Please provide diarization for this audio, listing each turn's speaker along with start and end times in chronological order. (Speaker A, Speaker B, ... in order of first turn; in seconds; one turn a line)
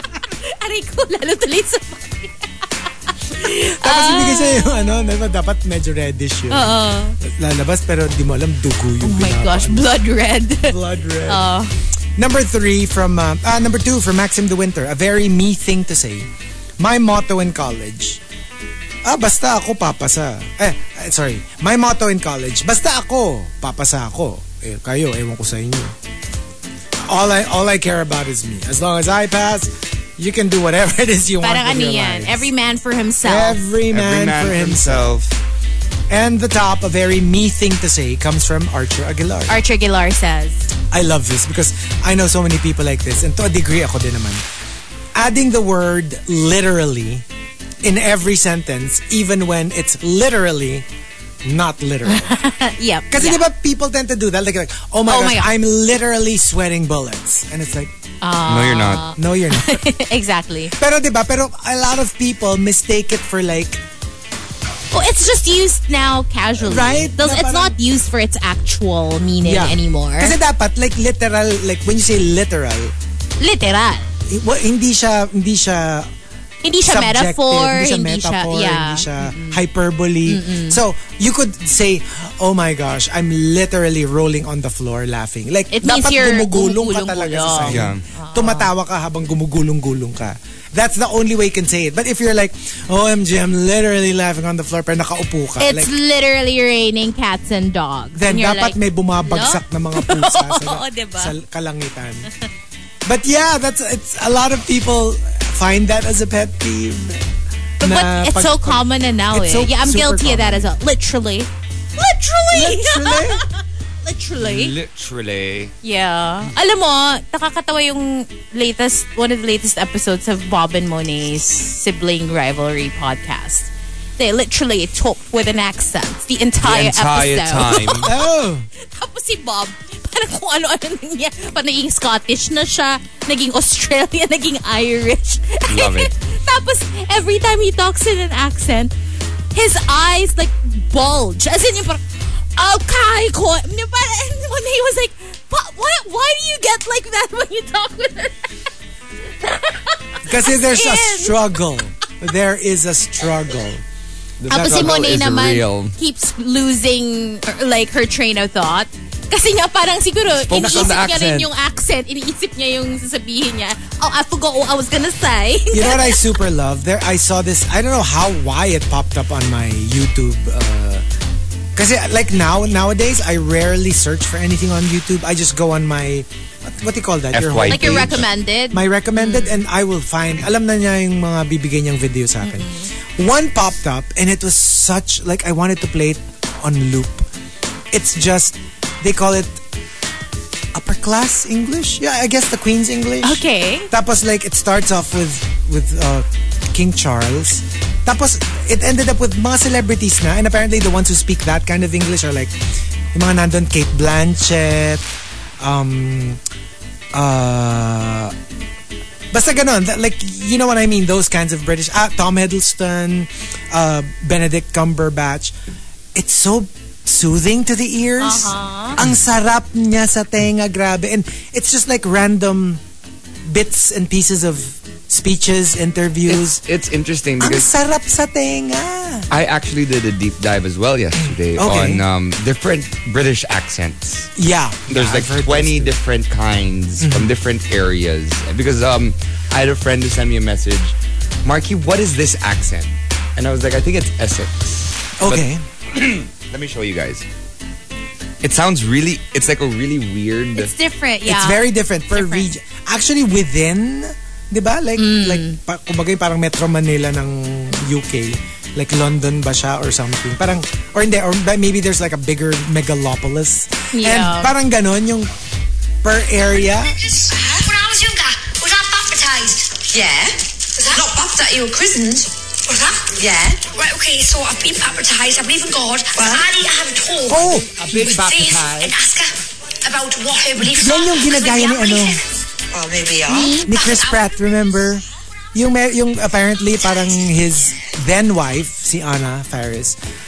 Speaker A: 0.3-2.5
Speaker A: 3.1-5.2
Speaker B: 3.4-9.9
Speaker A: 6.5-7.2
Speaker A: 9.0-11.7
Speaker B: 10.7-11.4
Speaker B: 12.2-16.3
Speaker B: 16.8-18.2
Speaker B: 19.1-25.9
Speaker B: 27.1-32.5
Speaker A: 31.4-33.6
Speaker B: 33.2-35.1
Speaker C: 33.9-35.4
Speaker B: 36.1-39.6
Speaker A: 39.5-40.7
Speaker B: 40.9-44.4
Speaker B: 45.1-47.2
Speaker B: 47.8-50.9
Speaker B: 51.5-52.4
Speaker A: 52.1-53.4
Speaker B: 53.1-57.9
Speaker A: 55.1-55.5
Speaker A: 58.2-60.7
Speaker C: 58.5-59.1
Speaker B: 59.2-59.9
Speaker B: 60.8-63.8
Speaker A: 64.9-70.3
Speaker B: 66.6-67.8
Speaker B: 69.4-72.9
Speaker A: 73.4-74.1
Speaker B: 74.3-76.1
Speaker A: 76.6-79.6
Speaker B: 76.9-95.9
Speaker A: 80.3-80.8
Speaker A: 85.7-88.7
Speaker C: 87.7-88.0
Speaker A: 95.6-101.3
Speaker B: 98.2-102.3
Speaker B: 103.1-107.2
Speaker B: 107.8-110.7
Speaker A: 107.8-114.8
Speaker B: 112.5-113.4
Speaker C: 114.4-115.7
Speaker A: 115.8-138.9
Speaker C: 126.6-128.1
Speaker B: 127.9-128.7
Speaker C: 135.7-136.1
Speaker A: 139.5-148.5
Speaker A: 149.4-151.6
Speaker B: 150.2-153.8
Speaker C: 154.4-156.0
Speaker A: 154.5-166.2
Speaker B: 154.5-155.0
Speaker C: 160.3-161.5
Speaker B: 160.6-161.0
Speaker B: 165.7-171.0
Speaker B: 171.8-187.3
Speaker C: 177.3-178.3
Speaker A: 177.7-179.6
Speaker A: 182.4-182.9
Speaker B: 187.9-189.6
Speaker B: 190.8-202.5
Speaker A: 193.2-193.9
Speaker B: 203.1-205.0
Speaker B: 205.6-206.4
Speaker B: 207.1-208.3
Speaker B: 209.3-215.5
Speaker B: 216.2-222.8
Speaker A: 218.2-219.0
Speaker B: 223.5-226.6
Speaker C: 226.3-227.7
Speaker B: 227.4-229.3
Speaker C: 229.3-234.3
Speaker B: 231.2-232.0
Speaker B: 234.4-235.9
Speaker C: 234.9-247.3
Speaker B: 237.0-237.3
Speaker B: 245.2-245.6
Speaker C: 248.4-250.7
Speaker A: 250.6-252.5
Speaker B: 251.3-265.3
Speaker A: 255.0-255.6
Speaker A: 263.9-264.5
Speaker B: 266.0-267.0
Speaker D: 267.1-284.4
Speaker B: 277.3-277.7
Speaker C: 277.7-278.9
Speaker B: 280.6-282.2
Speaker A: 283.3-283.7
Speaker B: 283.6-285.0
Speaker B: 285.5-290.0